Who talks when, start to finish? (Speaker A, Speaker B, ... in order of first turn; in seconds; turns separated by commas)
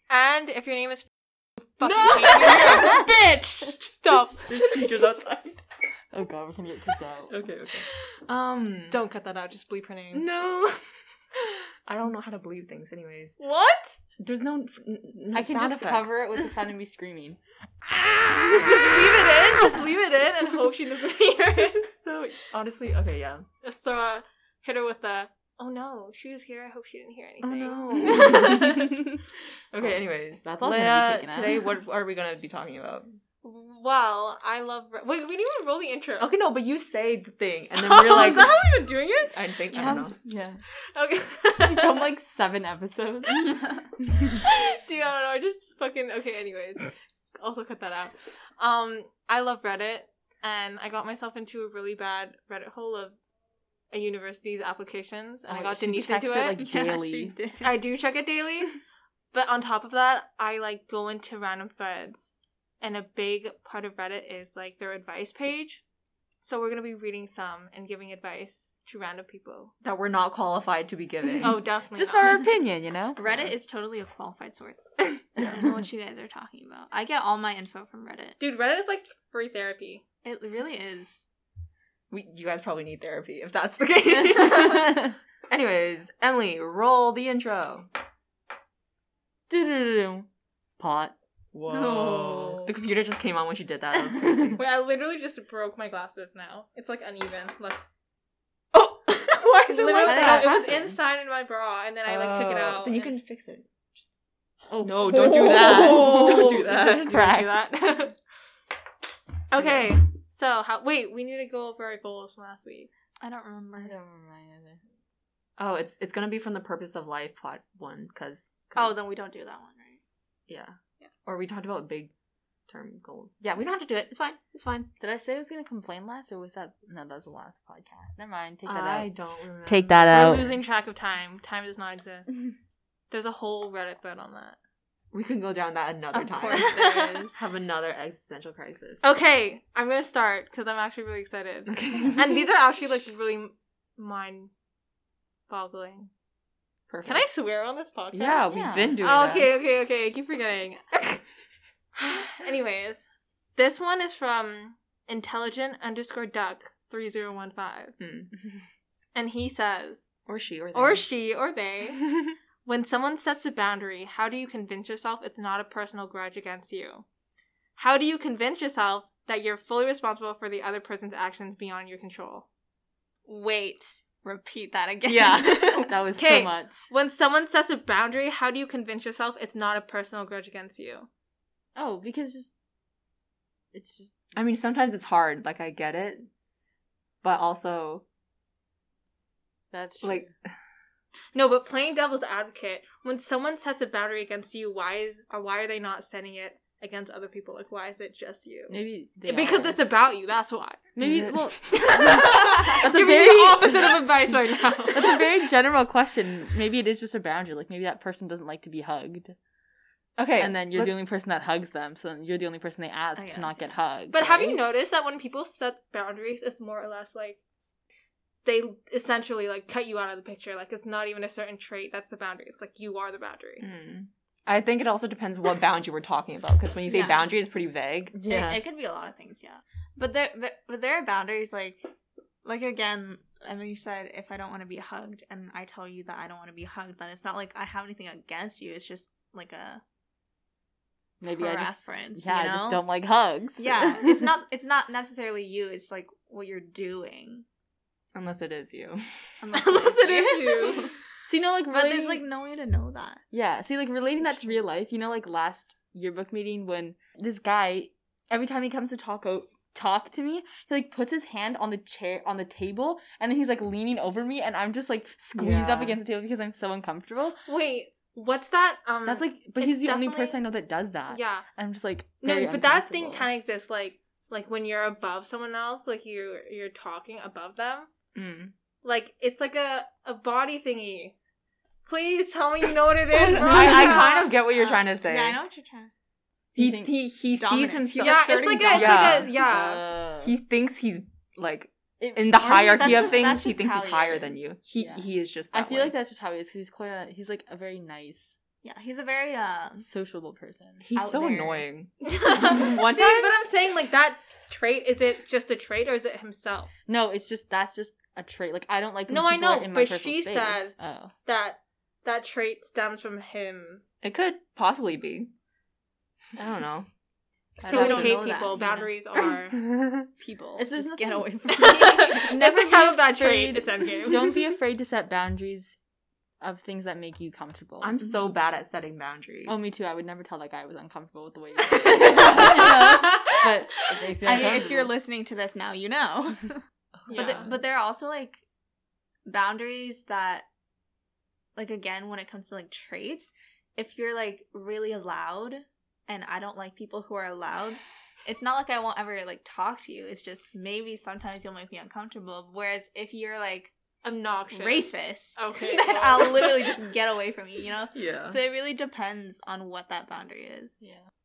Speaker A: 0.1-1.1, Speaker A: 1.8-4.9, Speaker B: 1.8-3.0, Speaker B: 4.5-5.6, Speaker C: 6.1-7.4, Speaker B: 7.3-9.0, Speaker A: 8.9-10.3, Speaker B: 10.1-10.8, Speaker B: 11.4-13.4, Speaker A: 13.4-14.0, Speaker B: 14.2-16.2, Speaker C: 15.3-17.4, Speaker A: 18.3-21.8, Speaker B: 21.5-23.5, Speaker A: 23.6-28.9, Speaker B: 27.4-29.2, Speaker B: 29.7-33.2, Speaker C: 30.4-31.6, Speaker A: 33.4-36.3, Speaker B: 36.2-38.6, Speaker A: 37.8-40.0, Speaker B: 39.3-40.2, Speaker C: 39.8-40.6, Speaker A: 40.9-42.1, Speaker C: 41.6-44.4, Speaker A: 44.4-53.2, Speaker A: 53.9-56.6, Speaker C: 55.5-57.4, Speaker D: 56.6-57.8, Speaker A: 57.6-58.8, Speaker A: 59.3-65.8, Speaker A: 66.4-69.7, Speaker B: 69.8-71.6, Speaker A: 71.4-72.3, Speaker C: 71.9-73.2, Speaker D: 73.2-78.4, Speaker B: 75.4-75.7, Speaker A: 78.4-80.0, Speaker D: 80.2-81.2, Speaker B: 82.1-87.9, Speaker C: 89.5-90.3, Speaker C: 90.8-91.2, Speaker B: 91.5-94.6, Speaker D: 91.7-92.7, Speaker C: 94.2-94.5, Speaker A: 94.5-97.8, Speaker B: 99.1-100.6, Speaker A: 99.3-103.1, Speaker C: 100.0-100.9, Speaker B: 102.1-104.1, Speaker C: 104.7-107.8, Speaker B: 104.8-107.3, Speaker A: 105.9-108.2, Speaker A: 109.5-112.9, Speaker D: 113.2-113.9, Speaker C: 113.8-114.8, Speaker B: 115.6-119.0, Speaker D: 118.8-120.0, Speaker B: 120.5-122.1, Speaker B: 122.7-124.9, Speaker C: 125.0-129.1, Speaker B: 128.7-130.4, Speaker C: 129.7-130.5, Speaker A: 130.1-132.5, Speaker A: 133.1-134.6, Speaker B: 135.1-136.8, Speaker D: 136.1-137.3, Speaker A: 136.5-137.3, Speaker B: 137.3-139.0, Speaker A: 139.0-144.5, Speaker B: 141.7-142.3, Speaker A: 145.5-146.1, Speaker B: 146.9-147.3, Speaker A: 147.1-148.5, Speaker B: 148.1-149.5, Speaker C: 148.5-149.0, Speaker A: 149.0-151.2, Speaker A: 151.9-153.0, Speaker A: 153.6-158.0, Speaker B: 158.0-158.3, Speaker A: 159.2-160.1, Speaker B: 160.3-161.1, Speaker A: 160.7-162.1, Speaker A: 162.7-167.1, Speaker A: 167.8-172.5, Speaker A: 173.3-173.9, Speaker D: 173.6-176.0, Speaker B: 175.1-176.0, Speaker C: 175.8-176.9, Speaker A: 176.2-181.1, Speaker C: 181.8-182.5, Speaker C: 183.7-184.2, Speaker B: 184.3-186.3, Speaker B: 187.2-188.0, Speaker C: 189.7-190.3, Speaker B: 190.0-190.5, Speaker A: 191.3-200.8, Speaker C: 198.7-199.8, Speaker C: 200.9-203.8, Speaker B: 201.0-202.0, Speaker A: 201.8-205.2, Speaker B: 202.9-205.0, Speaker C: 204.9-209.4, Speaker B: 210.2-211.0, Speaker C: 210.4-214.6, Speaker D: 213.2-213.7, Speaker A: 214.1-217.4, Speaker A: 218.4-223.6, Speaker B: 223.6-228.6, Speaker D: 226.9-227.3, Speaker C: 228.2-228.5, Speaker D: 228.3-231.9, Speaker D: 232.4-239.8, Speaker C: 241.2-244.3, Speaker D: 241.4-242.8, Speaker D: 243.6-247.5, Speaker B: 248.1-249.3, Speaker D: 249.4-250.9, Speaker A: 249.5-250.9, Speaker C: 251.2-252.2, Speaker D: 251.7-253.2, Speaker C: 253.3-267.4, Speaker B: 265.4-266.0, Speaker A: 267.5-270.4, Speaker C: 269.1-273.3, Speaker A: 271.1-271.4, Speaker A: 272.2-277.9, Speaker B: 278.1-278.5, Speaker A: 278.8-281.1, Speaker A: 281.9-284.3, Speaker B: 283.2-285.4, Speaker D: 283.5-285.9, Speaker B: 286.6-289.4, Speaker C: 286.6-286.9, Speaker D: 287.3-289.2, Speaker A: 288.0-289.9, Speaker C: 288.7-290.4, Speaker B: 290.2-295.9, Speaker C: 292.0-293.4, Speaker D: 292.4-294.5, Speaker C: 294.8-298.4, Speaker D: 298.6-299.9, Speaker C: 299.8-300.8, Speaker B: 300.8-303.4, Speaker D: 301.0-301.7, Speaker A: 302.0-306.7, Speaker C: 306.9-311.1, Speaker A: 309.1-310.8, Speaker A: 311.3-313.8, Speaker B: 314.0-315.3, Speaker B: 316.4-316.9, Speaker D: 317.6-318.8, Speaker C: 317.6-318.6, Speaker A: 317.6-319.6, Speaker B: 319.5-320.1, Speaker D: 320.2-322.3, Speaker C: 320.6-325.8, Speaker A: 321.6-324.4, Speaker C: 326.4-328.0, Speaker B: 327.8-329.6, Speaker C: 329.5-334.9, Speaker A: 331.9-333.4, Speaker B: 331.9-332.6, Speaker D: 334.2-338.4, Speaker B: 337.1-337.5, Speaker A: 337.1-337.5, Speaker D: 339.3-340.5, Speaker D: 341.6-353.7, Speaker A: 354.0-356.7, Speaker D: 354.5-360.8, Speaker B: 357.9-358.4